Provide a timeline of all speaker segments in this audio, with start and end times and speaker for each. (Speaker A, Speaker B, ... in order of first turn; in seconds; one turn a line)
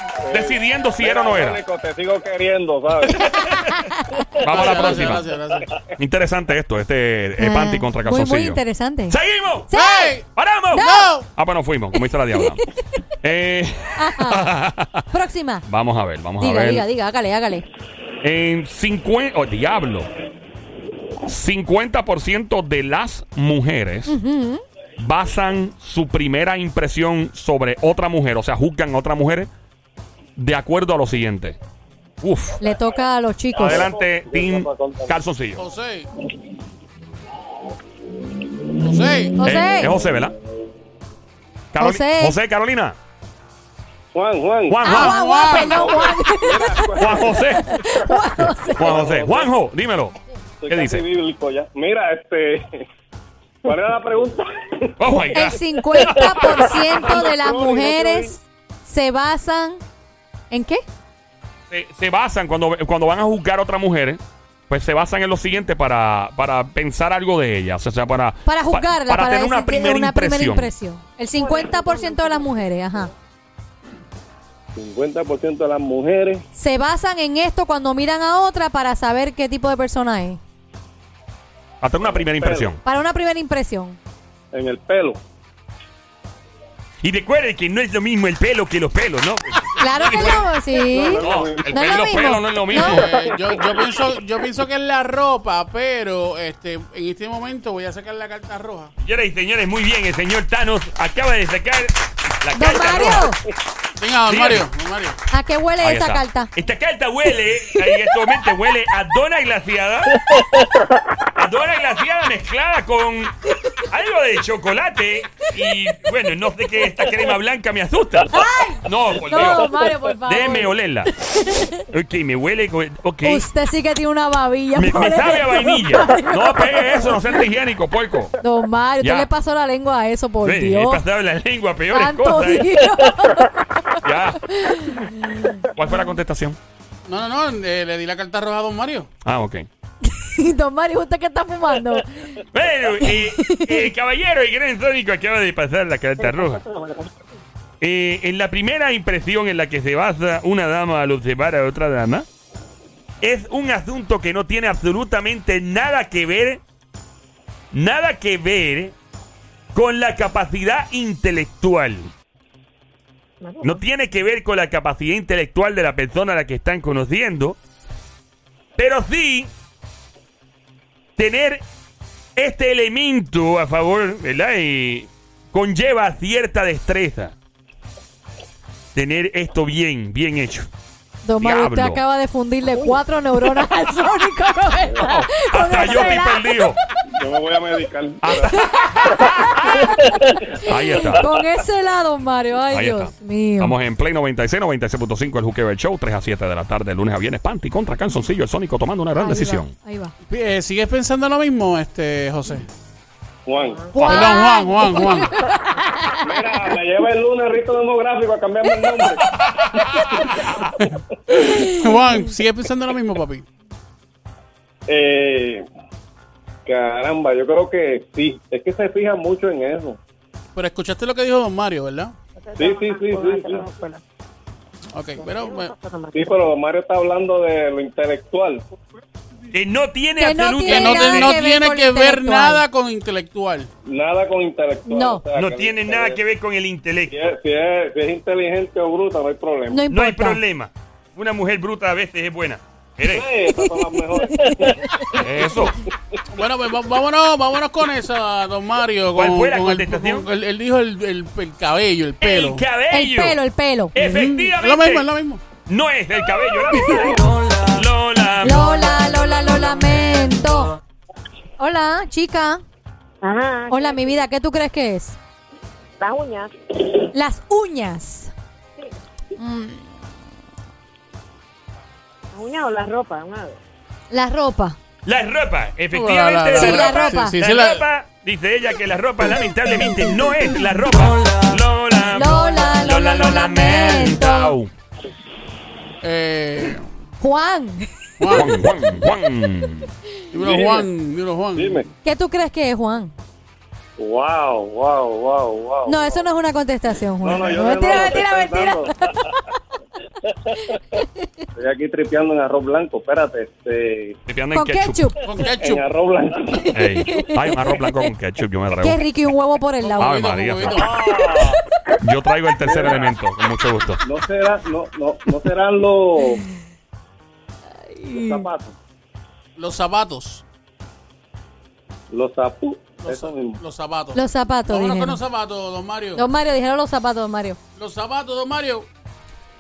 Speaker A: 0.2-3.3
Speaker B: 0.3-1.6
Speaker C: 3.1-4.3
Speaker B: 3.4-3.7
Speaker B: 4.4-5.3
Speaker A: 4.4-5.1
Speaker D: 4.4-5.7
Speaker B: 6.0-9.7
Speaker C: 7.4-9.2
Speaker C: 9.7-10.2
Speaker D: 9.7-11.3
Speaker B: 10.3-12.6
Speaker C: 10.7-11.1
Speaker C: 12.3-12.6
Speaker B: 13.2-15.1
Speaker C: 14.0-14.5
Speaker C: 15.1-15.7
Speaker B: 15.7-16.9
Speaker C: 16.4-17.6
Speaker B: 18.2-20.1
Speaker B: 21.2-24.2
Speaker C: 24.1-24.6
Speaker B: 25.0-29.5
Speaker B: 30.4-31.6
Speaker B: 32.2-32.6
Speaker C: 32.6-33.9
Speaker A: 33.6-35.1
Speaker B: 33.6-35.6
Speaker D: 35.6-36.1
Speaker D: 38.8-39.4
Speaker C: 39.4-40.0
Speaker B: 39.4-40.4
Speaker B: 41.7-43.0
Speaker C: 41.8-42.4
Speaker A: 44.1-44.8
Speaker B: 44.7-45.2
Speaker C: 44.8-49.0
Speaker D: 44.8-46.0
Speaker A: 45.6-47.4
Speaker B: 47.0-47.8
Speaker A: 48.7-49.5
Speaker B: 48.8-50.1
Speaker A: 50.6-52.9
Speaker B: 50.7-51.0
Speaker A: 53.6-55.0
Speaker B: 55.0-57.0
Speaker C: 55.3-59.8
Speaker A: 56.9-58.3
Speaker C: 60.5-60.8
Speaker B: 61.7-70.7
Speaker C: 68.5-73.1
Speaker E: 71.4-73.0
Speaker A: 74.8-76.5
Speaker C: 76.5-80.4
Speaker B: 81.8-82.8
Speaker A: 82.3-82.7
Speaker C: 82.8-84.0
Speaker A: 84.5-85.2
Speaker B: 87.0-90.5
Speaker C: 89.8-93.0
Speaker A: 90.8-92.1
Speaker B: 91.2-93.1
Speaker D: 92.7-98.9
Speaker A: 93.1-93.8
Speaker B: 99.0-103.3
Speaker C: 102.5-103.4
Speaker D: 104.0-105.2
Speaker B: 104.3-104.7
Speaker C: 105.3-106.5
Speaker B: 105.8-110.4
Speaker A: 110.3-110.8
Speaker B: 111.3-121.1
Speaker C: 118.3-121.8
Speaker B: 121.9-123.5
Speaker C: 123.2-127.2
Speaker B: 124.8-128.3
Speaker C: 128.4-131.0
Speaker B: 129.0-129.3
Speaker B: 130.4-132.8
Speaker C: 131.9-135.6
Speaker B: 134.0-135.1
Speaker B: 135.6-136.6
Speaker D: 137.1-139.1
Speaker B: 139.2-139.7
Speaker C: 140.0-142.4
Speaker B: 142.5-146.6
Speaker C: 143.0-143.9
Speaker E: 146.2-147.1
Speaker B: 147.8-152.3
Speaker B: 153.2-156.6
Speaker B: 157.7-158.9
Speaker B: 159.7-162.1
Speaker E: 163.4-163.8
Speaker B: 163.6-167.6
Speaker B: 168.8-169.5
Speaker B: 171.2-171.7
Speaker B: 172.4-177.4
Speaker B: 178.9-180.7
Speaker C: 181.2-186.7
Speaker B: 181.4-182.0
Speaker B: 185.0-186.8
Speaker A: 187.1-188.6
Speaker B: 188.2-191.3
Speaker C: 188.6-193.8
Speaker B: 192.7-199.7
Speaker C: 199.2-200.1
Speaker D: 200.3-202.7
Speaker A: 203.5-203.9
Speaker D: 203.9-205.4
Speaker C: 203.9-206.3
Speaker B: 204.0-204.3
Speaker A: 206.2-209.3
Speaker B: 209.4-210.7
Speaker D: 210.8-213.5
Speaker C: 211.6-211.9
Speaker A: 214.9-215.7
Speaker A: 216.7-220.0
Speaker D: 220.6-222.1
Speaker E: 222.4-224.0
Speaker A: 222.6-223.7
Speaker D: 224.9-225.7
Speaker E: 225.2-226.3
Speaker A: 226.1-228.7
Speaker B: 229.5-231.4
Speaker C: 230.2-232.6
Speaker D: 230.7-233.7
Speaker A: 233.9-236.2
Speaker C: 234.9-235.2
Speaker B: 235.3-237.3
Speaker A: 237.1-239.8
Speaker C: 239.7-240.4
Speaker B: 239.9-243.3
Speaker A: 243.0-245.6
Speaker C: 243.5-245.1
Speaker B: 245.1-245.8
Speaker D: 246.3-252.6
Speaker B: 249.1-250.3
Speaker B: 252.2-253.4
Speaker C: 252.9-253.9
Speaker B: 253.9-255.1
Speaker D: 254.0-255.4
Speaker B: 255.7-258.8
Speaker C: 256.8-257.1
Speaker C: 258.4-260.8
Speaker C: 261.6-262.6
Speaker E: 263.2-264.2
Speaker C: 263.7-265.2
Speaker E: 266.0-266.5
Speaker C: 267.1-268.3
Speaker C: 269.4-269.9
Speaker E: 272.3-273.6
Speaker C: 274.1-274.8
Speaker B: 275.1-284.7
Speaker D: 275.9-277.8
Speaker C: 276.5-277.4
Speaker C: 282.1-284.6
Speaker D: 286.0-286.9
Speaker C: 287.2-288.6
Speaker D: 288.2-288.6
Speaker B: 288.3-289.9
Speaker D: 290.3-291.8
Speaker A: 290.4-290.9
Speaker A: 291.6-291.9
Speaker C: 292.0-293.1
Speaker A: 294.0-296.2
Speaker C: 295.9-299.4
Speaker A: 297.2-299.1
Speaker C: 300.6-301.3
Speaker A: 301.6-304.2
Speaker B: 304.3-305.1
Speaker C: 304.5-305.2
Speaker D: 305.2-305.9
Speaker A: 305.6-306.7
Speaker C: 306.6-308.1
Speaker B: 306.7-309.0
Speaker C: 308.8-310.7
Speaker D: 309.8-310.9
Speaker B: 310.0-314.0
Speaker A: 311.0-311.5
Speaker C: 311.2-311.5
Speaker A: 312.6-313.1
Speaker A: 314.0-316.4
Speaker C: 317.9-318.5
Speaker A: 318.1-318.8
Speaker D: 319.6-320.4
Speaker A: 322.1-323.6
Speaker D: 323.0-326.3
Speaker C: 324.1-325.2
Speaker C: 326.1-327.6
Speaker D: 327.8-328.9